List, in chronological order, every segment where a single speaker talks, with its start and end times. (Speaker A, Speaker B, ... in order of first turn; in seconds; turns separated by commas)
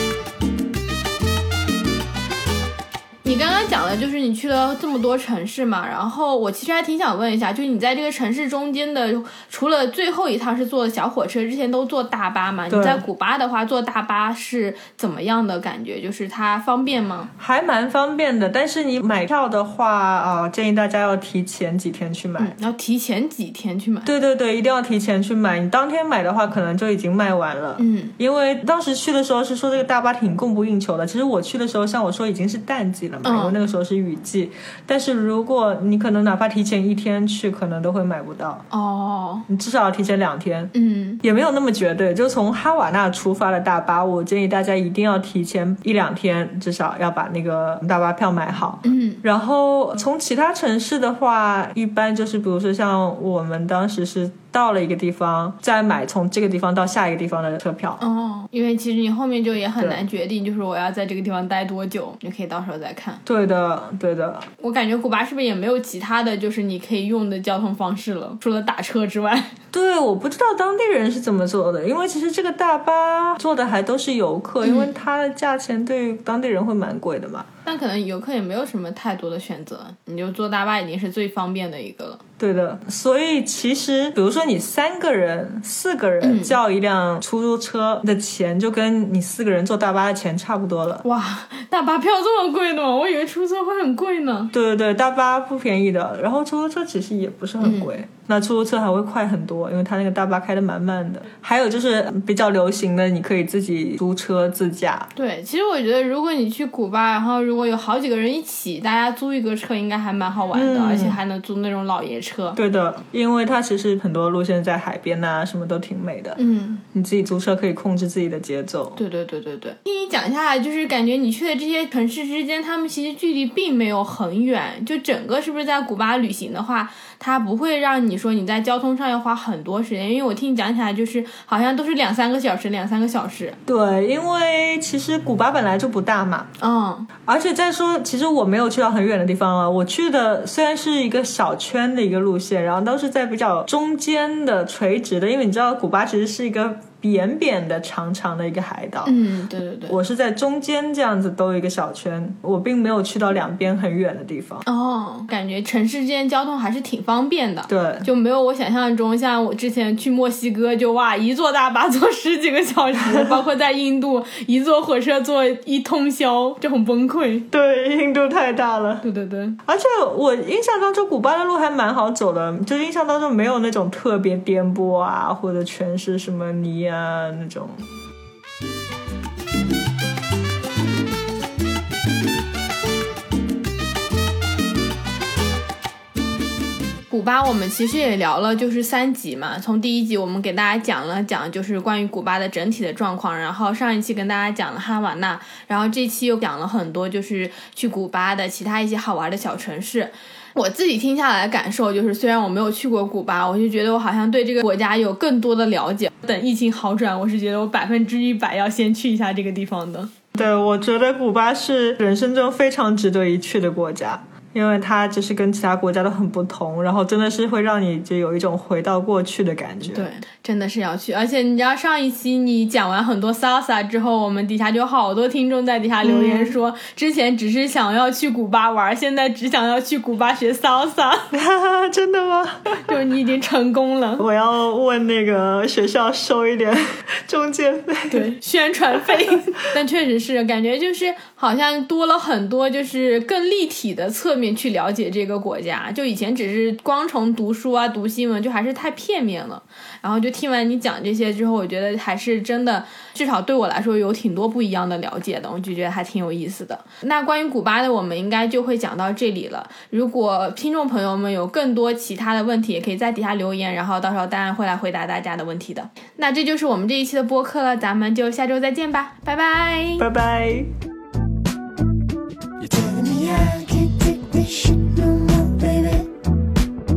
Speaker A: 3.2-17.3, Speaker B: 12.7-13.0, Speaker B: 17.4-22.6, Speaker A: 22.4-24.1, Speaker B: 24.0-38.6, Speaker A: 27.8-28.1, Speaker A: 33.2-33.5, Speaker A: 38.7-39.5, Speaker B: 39.5-40.7, Speaker A: 40.7-41.2, Speaker B: 41.2-58.0, Speaker A: 48.8-49.2, Speaker A: 58.0-63.2, Speaker B: 63.2-64.5, Speaker A: 64.6-69.5, Speaker B: 69.7-77.5, Speaker A: 74.6-74.9, Speaker A: 77.7-82.2, Speaker B: 82.4-91.0, Speaker A: 86.2-86.5, Speaker A: 91.0-94.5, Speaker B: 94.5-105.1, Speaker A: 97.6-97.9, Speaker A: 105.2-112.6, Speaker B: 110.5-111.2, Speaker B: 112.5-116.4, Speaker A: 116.3-116.8, Speaker B: 116.9-119.0, Speaker A: 119.0-133.6, Speaker B: 133.7-136.5, Speaker A: 136.6-137.1, Speaker B: 137.2-149.2, Speaker A: 149.0-150.0, Speaker B: 149.9-154.6, Speaker A: 154.7-167.5, Speaker B: 157.7-158.1, Speaker B: 163.0-163.4, Speaker B: 167.5-169.0, Speaker A: 169.0-169.6, Speaker B: 169.6-177.8, Speaker A: 187.1-210.1, Speaker B: 210.3-220.1, Speaker A: 219.9-231.3, Speaker B: 226.0-226.6, Speaker B: 231.3-232.9, Speaker A: 232.8-234.2, Speaker B: 234.2-238.3, Speaker A: 238.1-270.1, Speaker B: 239.0-239.4, Speaker B: 270.0-270.7, Speaker C: 272.6-276.1